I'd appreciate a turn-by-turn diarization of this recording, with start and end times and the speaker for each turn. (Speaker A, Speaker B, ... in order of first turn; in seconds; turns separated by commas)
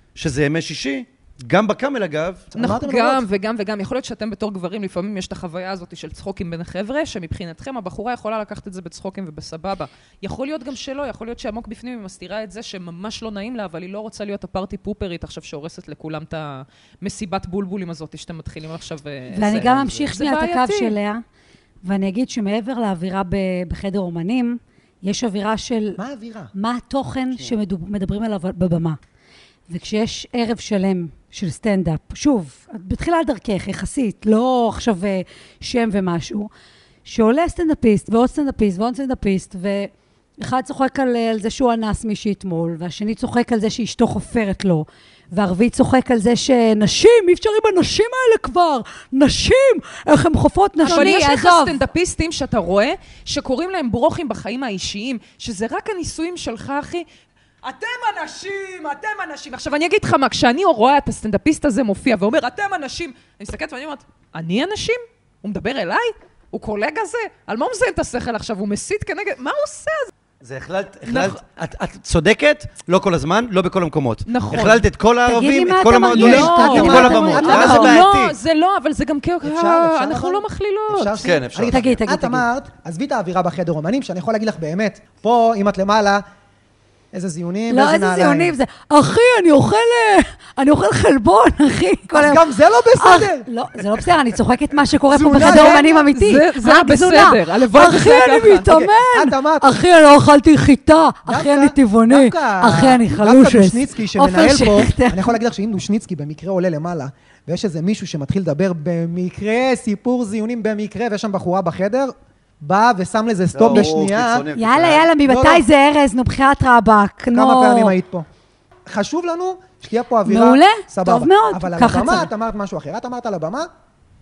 Speaker A: 0.1-2.5, Speaker B: 2.5-3.2, Speaker C: 2.5-20.9, Speaker D: 19.3-21.2, Speaker B: 19.5-20.0, Speaker D: 21.8-26.0, Speaker B: 25.9-26.5, Speaker D: 26.5-29.0, Speaker D: 29.7-36.5, Speaker D: 37.0-51.8, Speaker C: 50.8-57.0, Speaker C: 57.6-70.1, Speaker A: 70.4-78.3, Speaker C: 71.1-71.4, Speaker C: 74.3-74.8, Speaker D: 75.2-78.0, Speaker C: 76.1-81.2, Speaker B: 76.1-78.0, Speaker B: 79.4-86.2, Speaker A: 81.2-82.0, Speaker D: 81.7-82.4, Speaker B: 87.1-88.5, Speaker D: 87.7-92.4, Speaker B: 92.1-94.0, Speaker D: 93.0-105.3, Speaker B: 95.1-96.1, Speaker C: 95.3-98.7, Speaker B: 98.6-99.7, Speaker B: 101.3-114.5, Speaker A: 113.5-115.1, Speaker D: 114.5-117.9, Speaker B: 115.2-115.6, Speaker B: 117.3-118.2, Speaker B: 118.9-123.7, Speaker D: 120.2-122.3